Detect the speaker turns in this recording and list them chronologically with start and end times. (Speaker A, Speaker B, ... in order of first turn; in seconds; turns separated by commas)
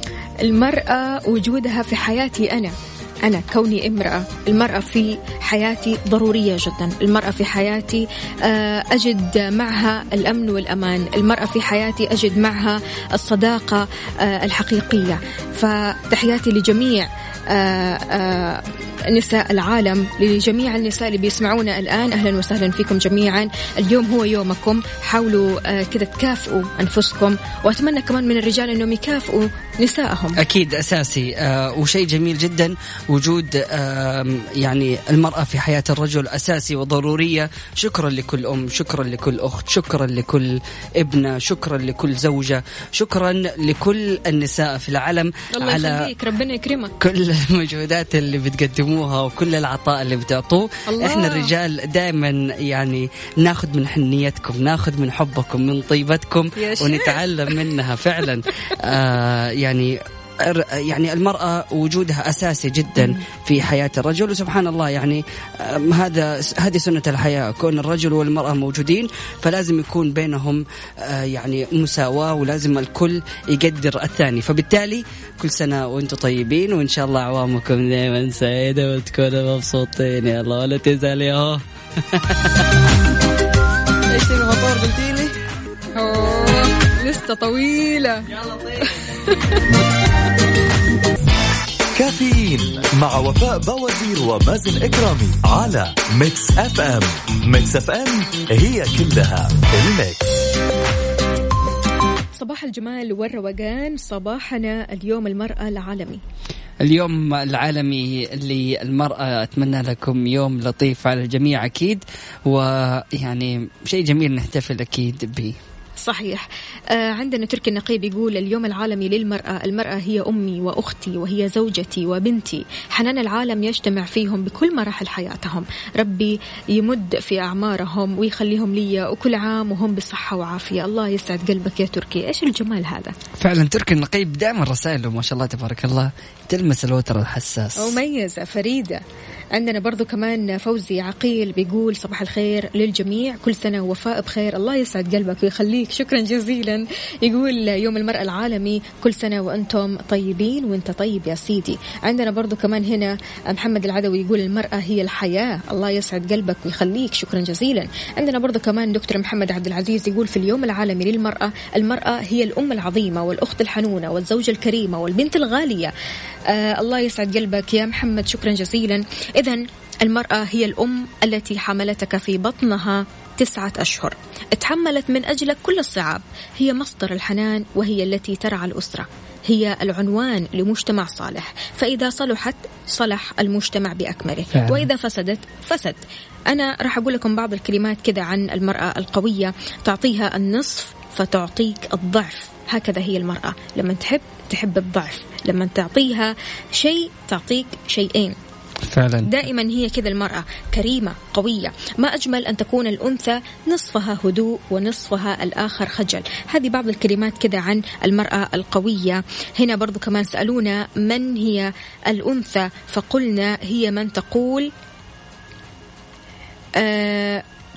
Speaker A: 0.4-30.4, Speaker B: 30.4-46.1, Speaker A: 45.6-47.0, Speaker B: 47.0-82.8, Speaker A: 50.9-51.5, Speaker A: 56.6-57.6, Speaker B: 84.1-85.3, Speaker A: 86.0-88.3, Speaker B: 88.3-88.9, Speaker A: 88.8-89.6, Speaker C: 92.0-100.3, Speaker A: 102.4-106.2, Speaker B: 106.8-115.6, Speaker A: 116.0-133.1, Speaker B: 133.4-138.0, Speaker A: 137.8-139.0, Speaker A: 139.6-165.9, Speaker A: 166.5-198.4, Speaker B: 184.5-184.9, Speaker B: 198.8-199.4, Speaker A: 199.2-214.7, Speaker A: 216.8-217.4